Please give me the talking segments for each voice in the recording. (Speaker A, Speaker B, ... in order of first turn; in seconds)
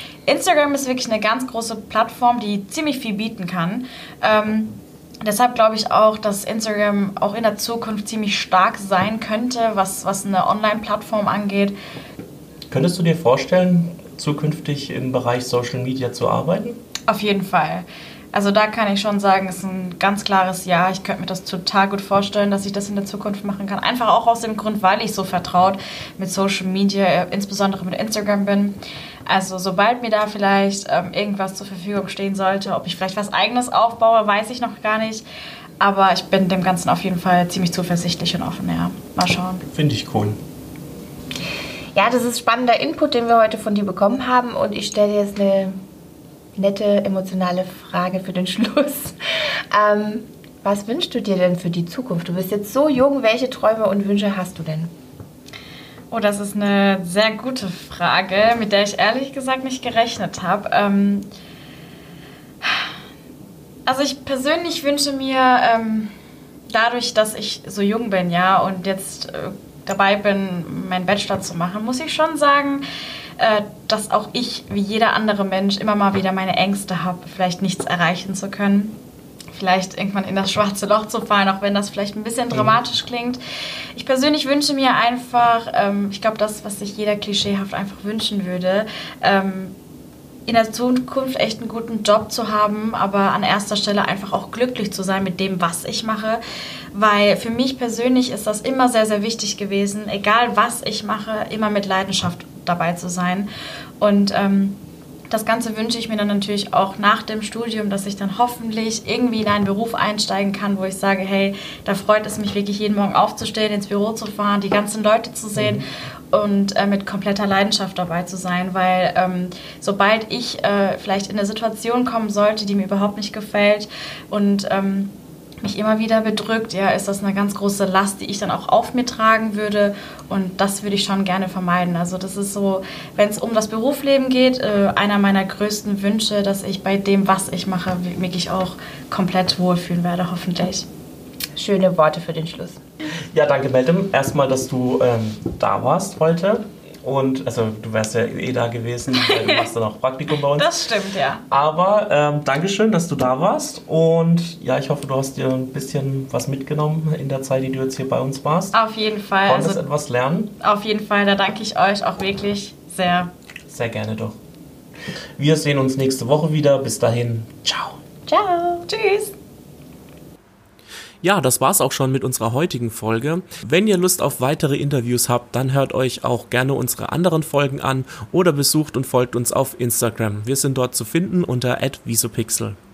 Speaker A: 0.2-11.7, 17.1-35.2, 35.8-39.6, 56.1-61.2, 62.6-62.9, 63.9-66.1, 66.7-72.8, 73.4-79.0, 79.5-83.4, 83.9-89.7, 90.5-96.4, 96.9-103.5, 104.0-104.8, 105.3-140.9, 149.1-149.7, 150.5-151.4, 158.7-159.8, 160.6-163.3, 168.8-169.3
Speaker B: 12.7-16.8, 39.7-40.4, 82.5-82.8, 115.5-115.8, 143.3-150.7, 151.5-158.7, 159.4-160.5, 163.7-164.4, 165.4-168.0, 171.2-182.8
Speaker C: 41.9-45.7, 46.5-49.1, 49.7-54.9, 141.5-142.8, 168.3-168.8